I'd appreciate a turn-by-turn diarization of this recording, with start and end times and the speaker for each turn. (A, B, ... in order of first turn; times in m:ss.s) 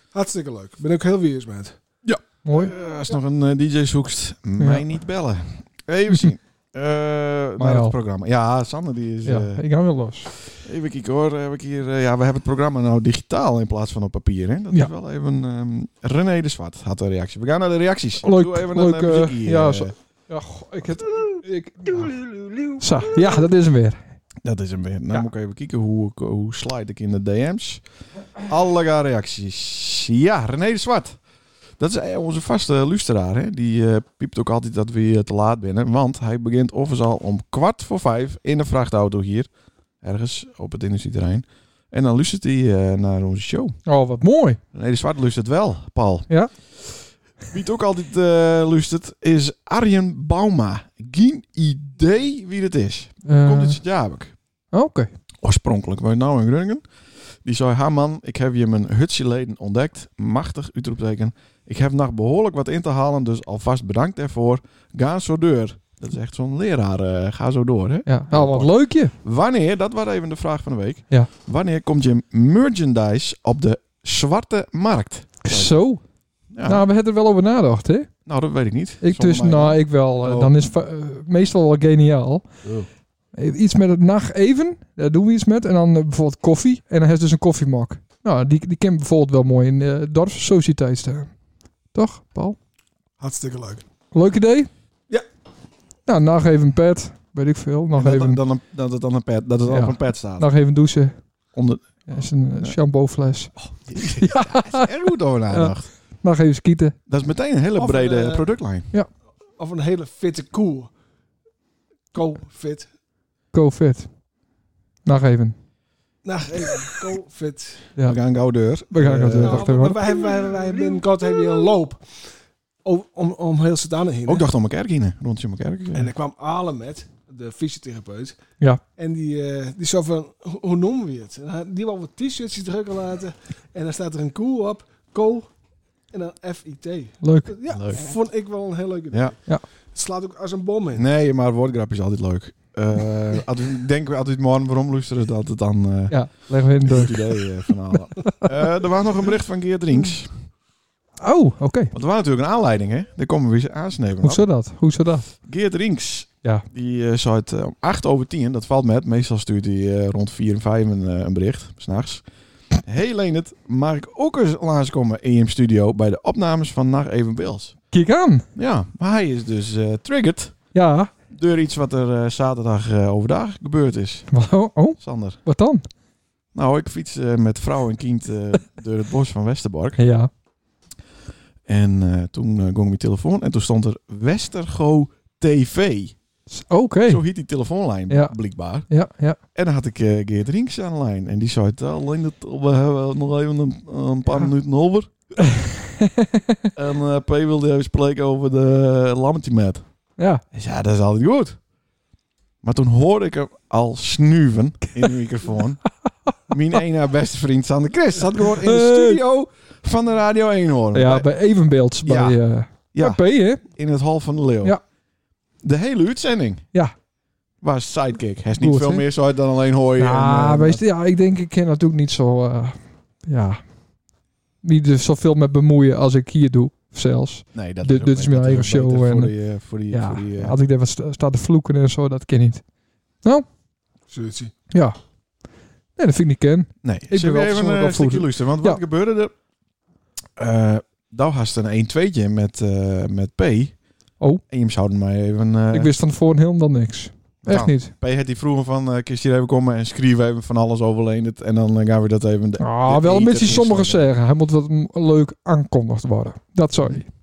0:00.1-0:01.8 A
0:02.0-0:09.6 B
0:02.4-0:02.8 C
0:04.6-0:04.9 C
0:07.6-0:08.0 C
0:09.2-0:10.3 C
0:10.6-0:19.9 B
0:18.2-0:24.0 C
0:24.4-0:27.8 B
0:28.4-0:31.2 B
0:31.8-0:39.5 B
0:40.0-0:43.8 B
0:43.9-0:44.6 C
0:44.7-0:46.3 B
0:47.5-0:54.3 B
0:53.3-0:53.8 C
0:54.7-0:55.1 C
0:55.4-0:56.8 B
0:57.4-1:15.8 B
1:08.1-1:09.1 C
1:15.4-1:16.0 C
1:16.5-1:16.9 B
1:16.6-1:18.1 C
1:18.3-1:20.5 B
1:19.0-1:22.5 C
1:23.4-1:31.3 C
1:31.9-1:32.6 C
1:33.2-1:33.9 A
1:34.1-1:34.7 C
1:36.1-1:38.4 C
1:38.0-1:40.5 B
1:39.7-1:41.2 C
1:41.6-1:42.8 B
1:42.1-1:44.9 C
1:43.6-1:45.9 B
1:45.5-1:47.0 C
1:47.1-1:48.9 B
1:47.8-1:48.5 A
1:49.6-1:50.9 A
1:52.1-1:52.9 A
1:53.5-1:54.1 C
1:55.0-1:55.6 C
1:56.2-1:57.9 A
1:58.0-1:59.6 B
1:58.9-2:00.0 C
1:59.4-2:02.1 A
2:02.8-2:04.5 A
2:04.3-2:06.1 B
2:05.9-2:08.4 A
2:09.0-2:15.5 A
2:16.1-2:19.4 A
2:17.2-2:17.5 C
2:17.7-2:18.1 B
2:19.9-2:21.1 A
2:21.0-2:30.3 B
2:26.1-2:27.5 C
2:28.2-2:28.5 C
2:31.2-2:31.9 C
2:31.9-2:34.5 B
2:34.2-2:35.3 C
2:35.4-2:42.2 B
2:42.8-2:47.8 B
2:47.9-2:48.5 C
2:48.6-2:50.6 B
2:50.7-2:51.1 C
2:51.3-2:54.3 B
2:54.3-2:55.8 C
2:55.0-2:55.4 B
2:56.5-3:00.0 B
3:00.0-3:00.3 C
3:01.7-3:06.2 B
3:06.5-3:07.2 C
3:07.1-3:08.9 B
3:08.1-3:08.4 C
3:08.9-3:09.4 C
3:09.6-3:15.1 B
3:15.4-3:16.6 C
3:16.8-3:19.8 B
3:20.5-3:21.6 B
3:22.6-3:25.8 B
3:26.5-3:31.3 B
3:28.5-3:29.2 C
3:30.9-3:33.6 C
3:32.0-3:32.4 B
3:32.9-3:34.8 B
3:35.6-3:36.6 B
3:37.6-3:40.8 B
3:38.6-3:39.0 C
3:40.0-3:43.6 C
3:44.6-3:49.3 C
3:47.5-3:50.6 B
3:49.9-3:52.6 C
3:54.1-3:54.5 A
3:54.7-3:55.0 C
3:56.0-3:58.8 C
3:56.8-3:59.3 B
4:00.4-4:03.8 B
4:04.5-4:05.9 B
4:05.7-4:07.9 C
4:07.4-4:14.1 B
4:12.6-4:17.1 C
4:16.8-4:17.0 B